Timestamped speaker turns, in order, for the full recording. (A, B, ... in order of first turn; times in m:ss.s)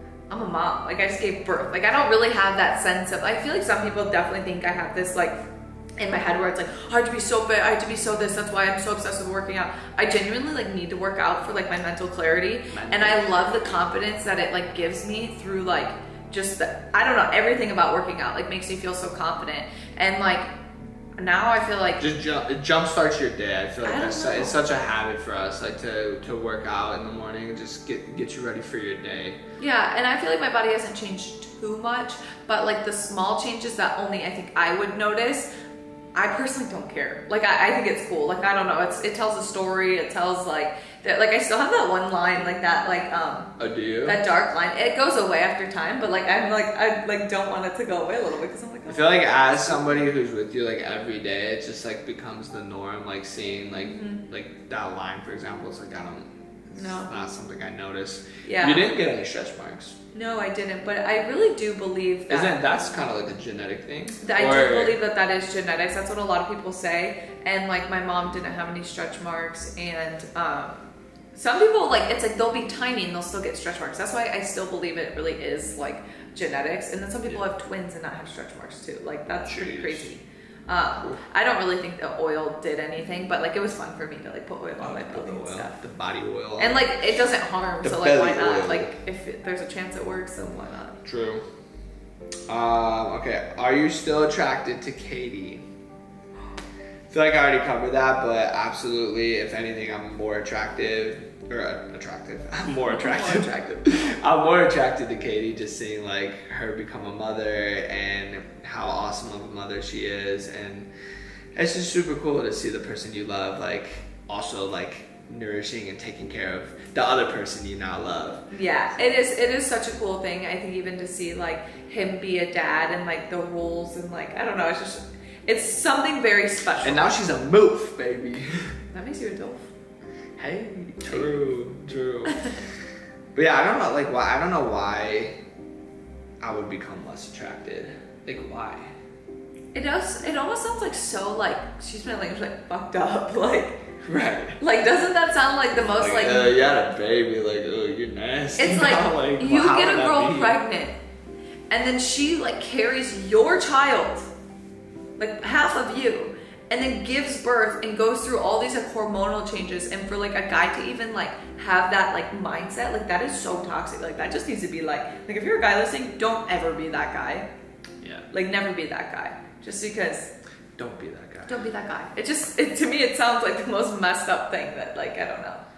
0:00.3-0:05.4 A
0:06.0-0:20.5 A
0:12.7-0:13.8 B
0:21.2-0:22.0 A
0:22.0-0:29.4 B
0:23.8-0:24.6 A
0:29.6-0:35.5 A
0:36.2-0:43.5 A
0:43.6-0:44.2 B
0:44.0-0:50.0 A
0:48.9-1:00.0 B
0:53.8-0:54.2 A
0:56.8-0:57.1 A
0:58.4-0:58.9 A
1:00.1-1:02.5 A
1:02.3-1:05.0 B
1:04.2-1:10.8 A
1:11.4-1:25.8 A
1:19.4-1:20.1 B
1:24.8-1:27.0 B
1:26.6-1:31.0 A
1:27.8-1:28.9 B
1:31.0-1:31.4 B
1:32.5-1:35.6 B
1:37.1-1:50.9 B
1:42.9-1:44.1 A
1:51.6-1:58.4 B
1:58.5-2:07.1 A
2:06.8-2:08.7 B
2:08.9-2:09.6 A
2:10.4-2:12.4 B
2:12.3-2:12.6 A
2:13.3-2:15.4 B
2:16.4-2:18.9 B
2:19.7-2:23.8 A
2:24.0-2:24.6 B
2:24.6-2:26.8 A
2:26.0-2:30.6 B
2:28.6-2:31.0 A
2:31.7-2:34.3 A
2:35.2-2:47.5 A
2:48.0-2:48.3 B
2:48.3-2:50.3 A
2:50.8-2:51.6 B
2:51.5-2:55.6 A